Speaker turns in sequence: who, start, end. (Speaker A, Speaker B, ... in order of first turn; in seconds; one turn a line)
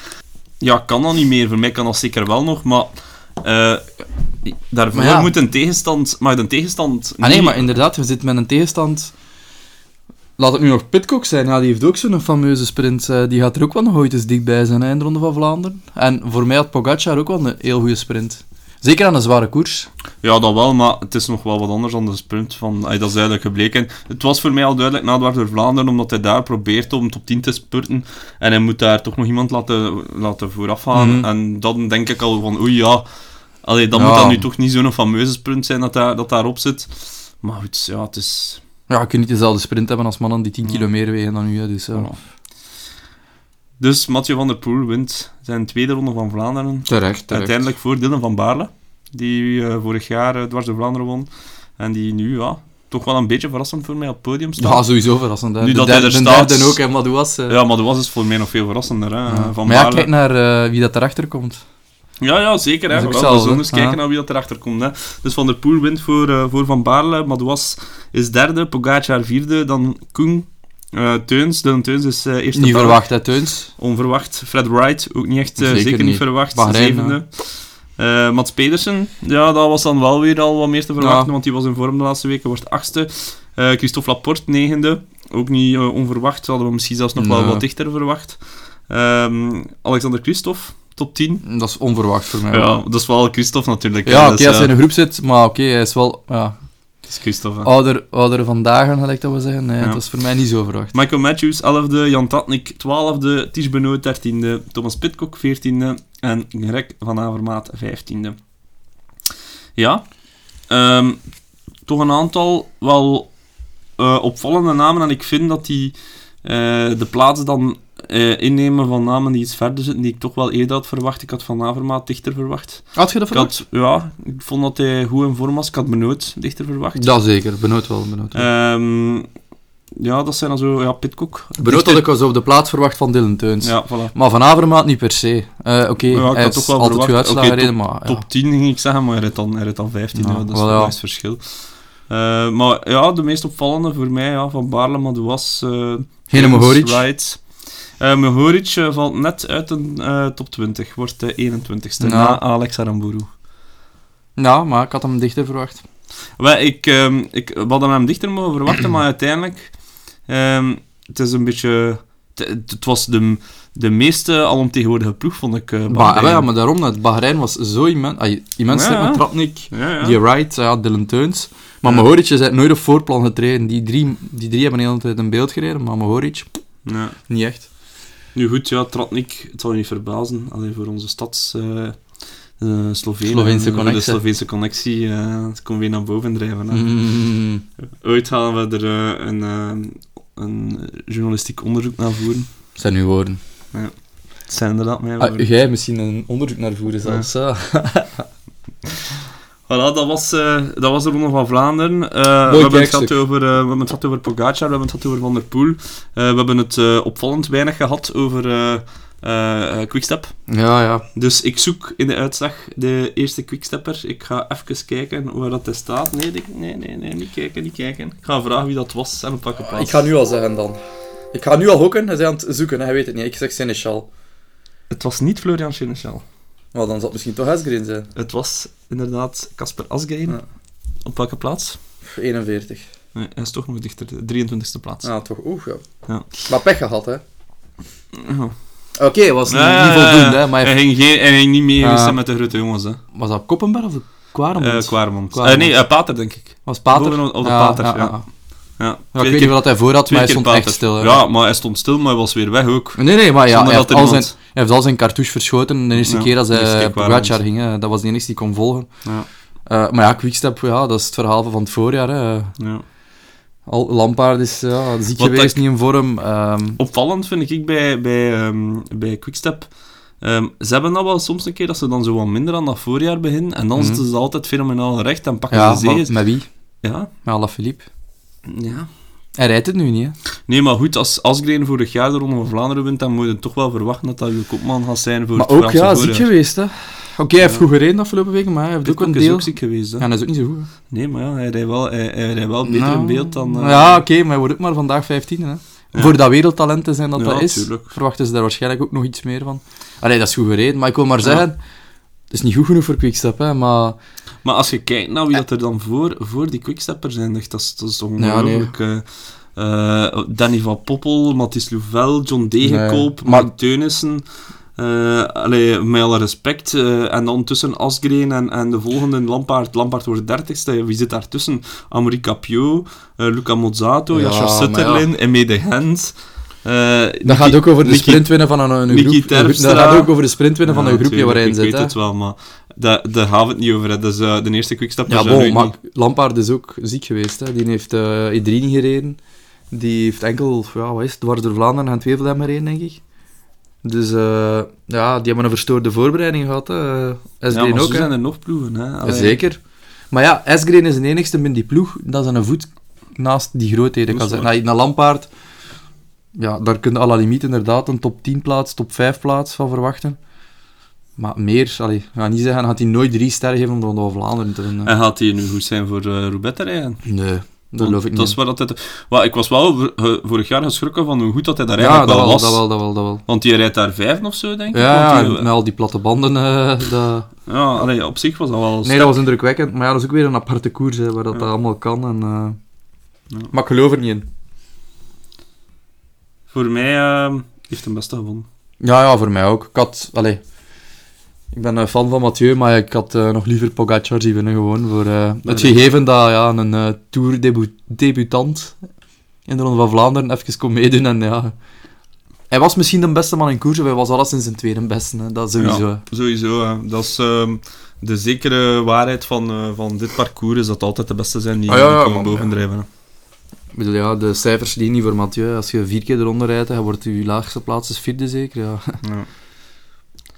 Speaker A: 0.6-7.6
Speaker B: 4.9-5.3
Speaker B: 7.2-9.1
Speaker B: 10.4-19.9
Speaker A: 20.2-38.6
Speaker B: 30.9-31.3
Speaker B: 33.9-34.4
Speaker B: 38.9-42.2
Speaker A: 41.9-42.2
Speaker A: 43.8-55.0
Speaker B: 46.9-47.7
Speaker B: 54.6-57.6
Speaker A: 55.6-56.9
Speaker A: 57.5-60.1
Speaker B: 59.3-61.6
Speaker A: 62.2-91.4
Speaker B: 62.9-64.0
Speaker B: 72.5-73.7
Speaker B: 75.6-77.2
Speaker B: 81.0-81.3
Speaker B: 87.2-87.6
Speaker B: 91.4-92.8
Speaker A: 92.5-94.7
Speaker B: 94.0-96.9
Speaker A: 97.1-97.7
Speaker B: 97.6-100.9
Speaker A: 99.8-100.0
Speaker A: 100.9-108.4
Speaker A: 109.8-113.4
Speaker A: 114.0-127.1
Speaker B: 122.9-123.5
Speaker B: 127.0-128.5
Speaker A: 128.3-129.3
Speaker A: 130.0-132.1
Speaker B: 131.6-138.2
Speaker A: 133.6-134.1
Speaker A: 136.1-153.3
Speaker B: 140.2-140.9
Speaker B: 146.3-147.0
Speaker B: 152.0-152.4
Speaker B: 154.4-155.8
Speaker A: 156.4-166.5
Speaker B: 165.9-176.5
Speaker A: 168.7-170.2
Speaker A: 176.8-177.2
Speaker B: 177.2-177.7
Speaker A: 178.3-186.9
Speaker B: 183.3-184.2
Speaker B: 186.7-187.7
Speaker A: 187.8-192.5
Speaker B: 192.8-193.4
Speaker A: 193.7-195.4
Speaker B: 195.2-198.3
Speaker A: 199.7-210.4
Speaker B: 202.5-203.2
Speaker B: 210.5-211.1
Speaker A: 211.2-220.0
Speaker B: 219.6-224.1
Speaker A: 224.9-226.2
Speaker B: 226.7-228.1
Speaker A: 228.2-231.8
Speaker B: 232.1-232.9
Speaker A: 233.2-235.1
Speaker B: 235.0-237.2
Speaker A: 238.2-238.6
Speaker B: 239.0-240.8
Speaker A: 239.5-243.0
Speaker B: 241.8-242.2
Speaker B: 243.1-251.2
Speaker A: 244.6-254.3
Speaker B: 253.0-262.6
Speaker A: 256.0-257.4
Speaker A: 262.6-262.8
Speaker B: 263.7-266.8
Speaker A: 265.2-265.6
Speaker A: 266.8-277.1
Speaker B: 273.8-274.0
Speaker B: 275.5-277.9
Speaker A: 278.5-278.9
Speaker B: 279.4-280.2
Speaker A: 280.5-286.3
Speaker B: 285.4-290.7
Speaker A: 288.8-290.1
Speaker A: 290.9-294.0
Speaker B: 292.6-304.0
Speaker A: 295.9-296.2
Speaker A: 297.2-298.0
Speaker A: 304.4-335.7
Speaker B: 308.2-308.7
Speaker B: 312.6-313.5
Speaker B: 324.1-325.1
Speaker B: 327.2-331.9
Speaker B: 335.1-343.1
Speaker B: 343.8-348.3
Speaker A: 347.5-349.4
Speaker B: 349.0-355.3
Speaker A: 354.1-354.5
Speaker B: 356.4-360.2
Speaker B: 361.2-364.9
Speaker A: 364.8-375.5
Speaker B: 367.1-368.4
Speaker B: 371.8-373.2
Speaker B: 374.7-377.3
Speaker A: 377.5-379.2
Speaker B: 378.8-382.6
Speaker B: 383.5-384.3
Speaker A: 386.5-388.5
Speaker B: 388.8-390.4
Speaker B: 391.5-398.9
Speaker A: 395.5-395.8
Speaker B: 399.4-401.6
Speaker B: 402.5-406.0
Speaker A: 405.6-412.9
Speaker B: 411.7-412.5
Speaker B: 413.7-419.0
Speaker A: 419.0-419.3